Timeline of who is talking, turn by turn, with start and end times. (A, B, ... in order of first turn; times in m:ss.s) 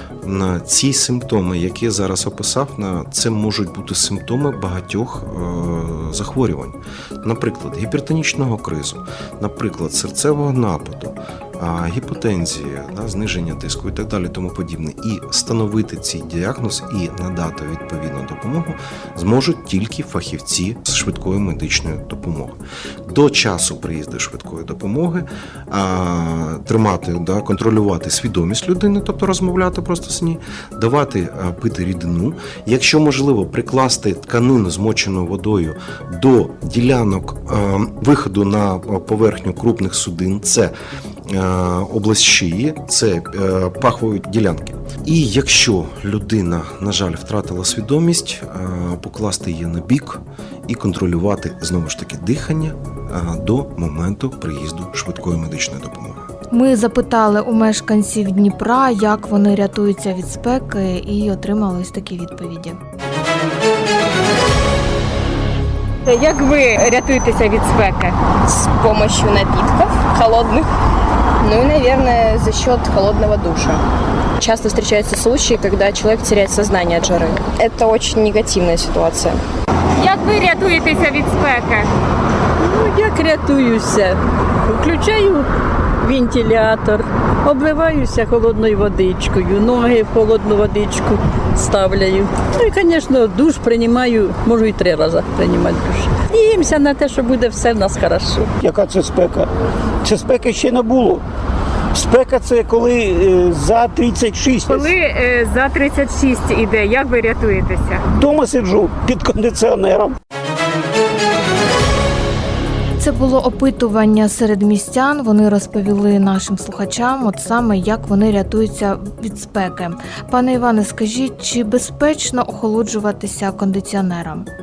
0:00.2-0:40.7 A
0:41.2-0:56.3 A
0:56.5-1:02.8 B
1:06.0-1:08.2 C
1:08.4-1:10.7 D
1:11.4-1:13.8 D
1:14.4-1:19.4 D
1:20.0-1:21.9 C
1:22.6-1:25.5 E
1:26.0-1:38.5 E
1:38.6-1:39.5 F
1:40.0-1:41.2 F
1:41.9-1:44.9 F
1:44.7-1:48.0 C
1:48.1-1:50.2 F
1:53.0-2:04.5 B